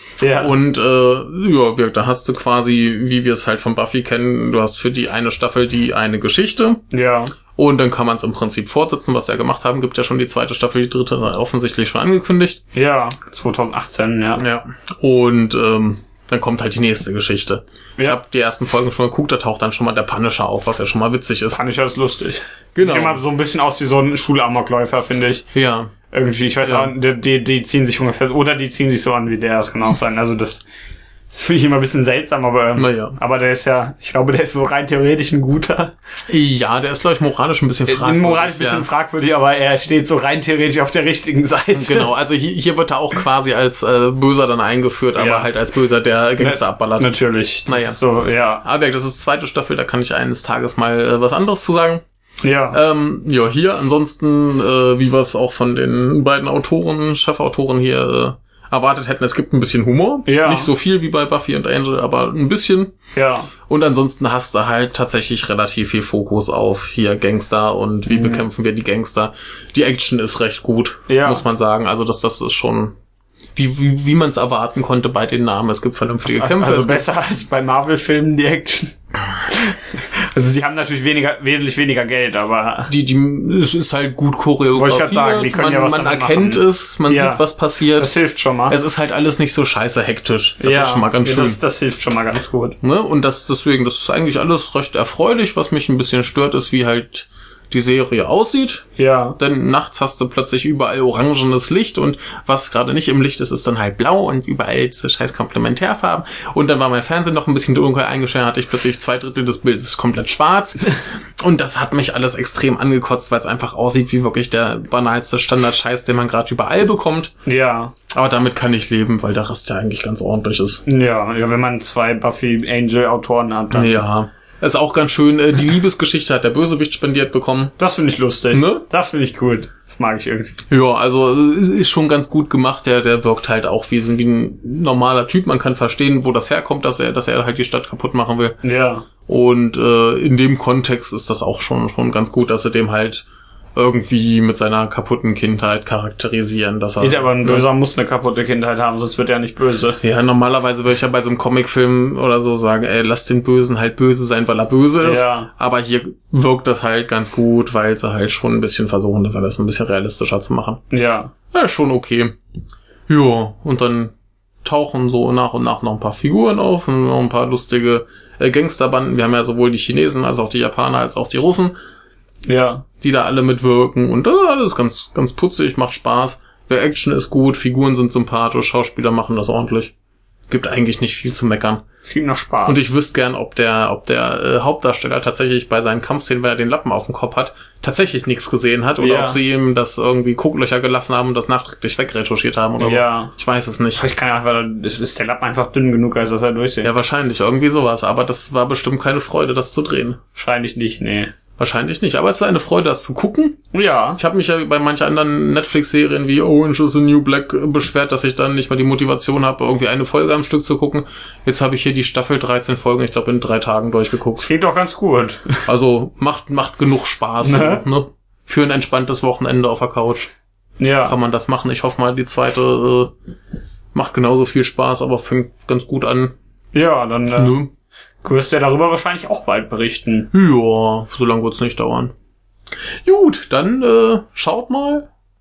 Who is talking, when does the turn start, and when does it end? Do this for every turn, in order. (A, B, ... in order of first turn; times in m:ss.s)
0:00.2-0:00.6 A
0:00.4-0:06.8 B
0:06.9-0:07.3 A
0:07.6-0:12.6 B
0:12.7-0:14.4 A
0:14.4-0:21.6 B
0:21.5-0:25.5 A
0:22.8-0:23.2 B
0:25.5-0:25.9 B
0:26.1-0:30.6 A
0:26.6-0:26.9 B
0:31.3-0:35.9 A
0:32.8-0:33.2 B
0:36.3-0:38.9 B
0:37.9-0:42.1 A
0:41.7-0:47.1 B
0:45.2-0:45.5 A
0:46.4-0:48.6 A
0:47.7-0:48.0 B
0:48.6-0:52.0 B
0:52.4-0:52.8 A
0:52.7-1:02.9 B
1:00.3-1:00.7 A
1:03.2-1:03.5 A
1:03.7-1:13.0 B
1:08.1-1:08.5 A
1:11.1-1:11.4 A
1:13.6-1:17.1 B
1:16.3-1:22.9 A
1:22.9-1:28.1 B
1:24.7-1:28.8 A
1:28.7-1:31.6 B
1:30.6-1:32.8 A
1:32.8-1:38.8 B
1:39.0-1:39.4 A
1:39.4-1:57.3 B
1:57.4-1:57.9 A
1:58.1-2:00.8 B
2:00.9-2:04.0 A
2:03.7-2:07.7 B
2:07.8-2:10.6 A
2:08.5-2:08.8 B
2:10.7-2:18.6 B
2:18.6-2:19.1 A
2:19.3-2:27.7 B
2:27.0-2:30.0 A
2:30.0-2:40.8 B
2:35.0-2:35.5 A
2:40.9-2:41.3 A
2:41.5-2:42.3 B
2:43.1-2:44.1 B
2:44.6-2:51.7 B
2:52.5-2:52.8 A
2:53.0-2:59.9 B
3:00.5-3:01.8 B
3:02.1-3:02.8 A
3:02.7-3:14.0 B
3:09.0-3:09.4 A
3:12.8-3:13.3 A
3:14.0-3:16.9 A
3:16.8-3:20.2 B
3:20.4-3:21.3 A
3:21.6-3:23.6 B
3:23.7-3:24.2 A
3:24.2-3:34.5 B
3:34.4-3:35.6 A
3:35.7-3:40.3 B
3:37.4-3:37.8 A
3:40.8-3:41.2 A
3:41.1-3:43.1 B
3:43.9-3:46.3 B
3:46.7-3:47.6 A
3:47.4-3:47.7 B
3:48.2-3:50.3 A
3:50.3-3:52.1 B
3:53.0-3:55.1 B